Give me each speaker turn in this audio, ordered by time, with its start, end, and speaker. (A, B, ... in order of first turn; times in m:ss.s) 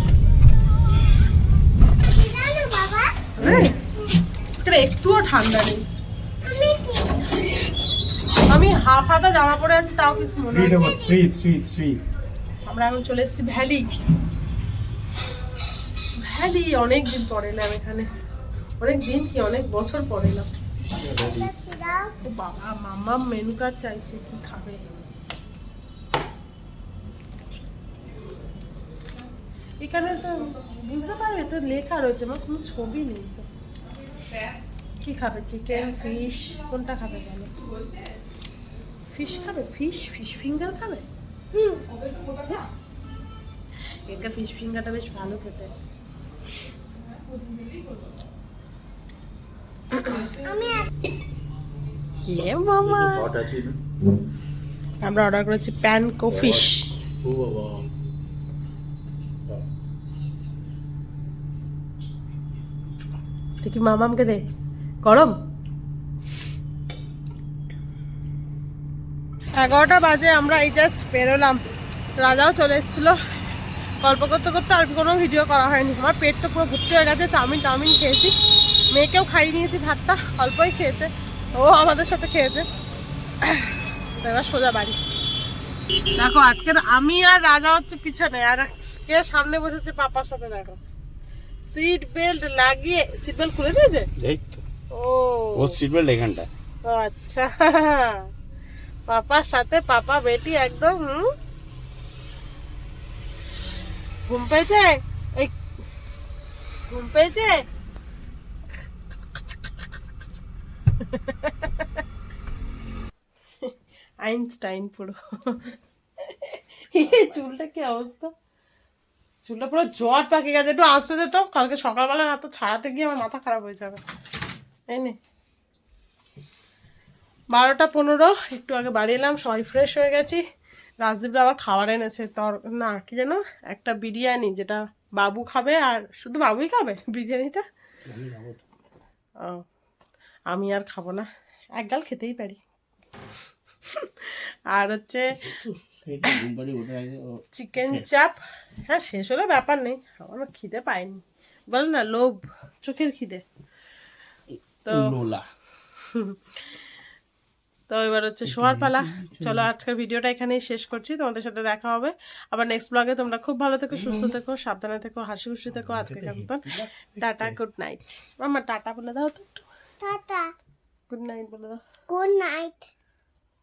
0:02.0-0:03.2 A
0:03.4-0:03.7 B
0:04.6-0:05.8 B
0:06.4-0:07.2 A
0:08.5-0:11.0 B
0:10.2-0:11.2 A
0:10.5-0:12.0 C
0:12.7-0:13.9 B
0:16.2-0:18.1 B
0:18.8-0:20.5 B
0:20.8-0:21.5 C
0:21.1-0:22.2 A
0:22.2-0:24.8 B
0:29.8-0:33.4 B
0:35.0-0:37.5 B
0:39.1-0:41.0 B
0:41.5-0:41.8 A
0:44.1-0:45.7 B
0:49.9-0:50.3 B
0:50.4-0:50.9 A
0:52.2-0:53.3 B
0:52.8-0:53.8 C
0:55.0-0:56.9 B
0:56.3-0:57.9 C
1:03.6-1:04.4 B
1:05.0-1:05.3 B
1:09.6-1:11.6 B
1:12.2-1:13.2 B
1:14.0-1:18.3 B
1:18.9-1:22.6 B
1:23.5-1:25.0 B
1:26.2-1:30.8 B
1:31.7-1:34.1 B
1:34.2-1:34.6 C
1:34.9-1:35.7 B
1:35.5-1:36.5 C
1:36.9-1:38.2 B
1:39.1-1:41.3 B
1:44.3-1:45.5 B
1:46.9-1:47.6 B
1:49.5-1:49.8 B
1:51.1-1:51.9 B
1:54.2-1:58.3 B
1:59.4-2:04.0 B
2:04.9-2:05.2 B
2:07.5-2:10.4 B
2:11.0-2:17.6 B
2:18.1-2:18.6 C
2:20.5-2:22.6 B
2:24.0-2:25.3 B
2:25.5-2:28.0 C
2:27.5-2:33.4 B
2:34.9-2:35.4 C
2:37.9-2:49.6 B
2:38.4-2:39.7 C
2:43.9-2:44.3 C
2:45.7-2:47.6 C
2:50.0-2:50.5 A
2:51.1-2:51.8 B
2:52.1-2:52.9 A